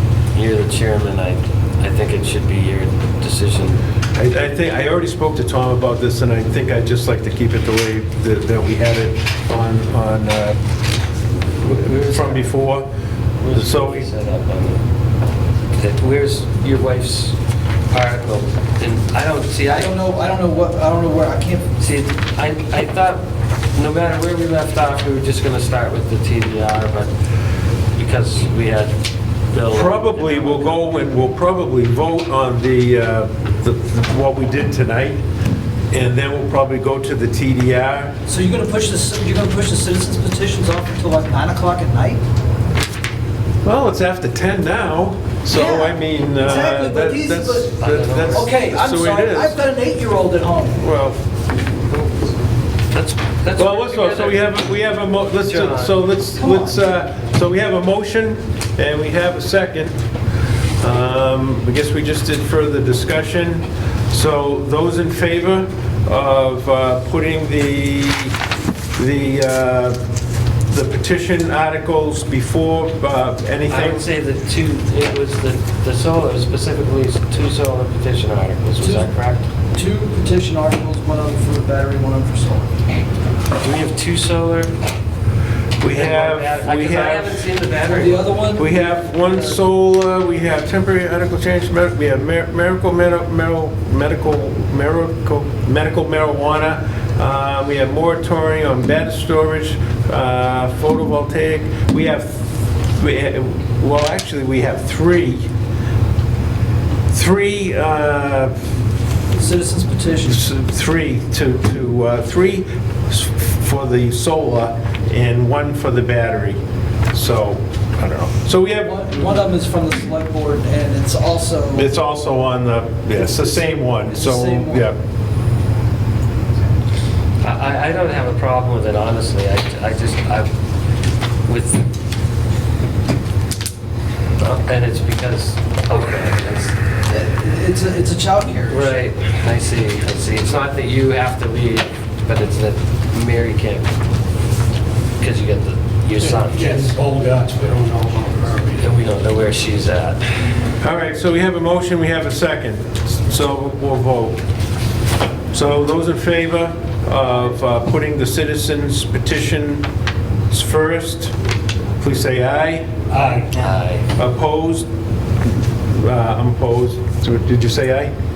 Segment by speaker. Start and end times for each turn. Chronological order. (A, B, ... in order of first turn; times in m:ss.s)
0:00.3-0:03.8 A
0:04.2-0:10.6 B
0:11.6-0:12.9 B
0:11.7-0:12.5 A
0:13.4-0:14.8 A
0:13.5-0:14.1 B
0:15.8-0:17.4 A
0:17.9-0:20.0 A
0:19.7-0:21.7 C
0:21.8-0:27.1 A
0:28.0-0:29.0 A
0:29.5-0:30.9 A
0:29.7-0:35.2 B
0:35.9-0:38.1 B
0:38.3-0:42.2 C
0:43.6-0:49.6 B
0:45.5-0:47.7 C
0:47.8-0:48.5 A
0:48.3-0:50.8 C
0:50.8-0:51.2 B
0:51.9-0:52.2 A
0:52.9-0:56.0 A
0:53.6-1:00.0 B
0:56.4-0:56.8 C
1:00.8-1:08.4 B
1:09.0-1:10.0 B
1:10.7-1:14.1 B
1:13.7-1:19.5 A
1:18.8-1:19.1 C
1:19.7-1:22.7 C
1:23.6-1:24.8 A
1:25.8-1:27.6 B
1:25.9-1:28.5 A
1:27.9-1:29.6 C
1:28.6-1:45.5 B
1:47.1-1:48.5 B
1:49.3-1:50.5 C
1:50.3-1:56.6 B
1:57.1-1:59.3 B
1:58.8-2:01.9 C
2:01.7-2:05.0 B
2:03.4-2:04.8 C
2:07.4-2:10.5 A
2:11.4-2:11.9 A
2:14.4-2:16.8 A
2:17.1-2:19.1 C
2:18.7-2:23.9 A
2:25.2-2:26.9 A
2:26.4-2:28.8 D
2:26.6-2:26.9 C
2:28.8-2:30.2 A
2:30.8-2:34.4 B
2:35.5-2:39.9 B
2:40.5-2:41.3 B
2:42.0-2:42.9 B
2:43.1-2:43.7 D
2:43.6-2:44.1 A
2:44.2-2:44.9 B
2:45.9-2:48.1 B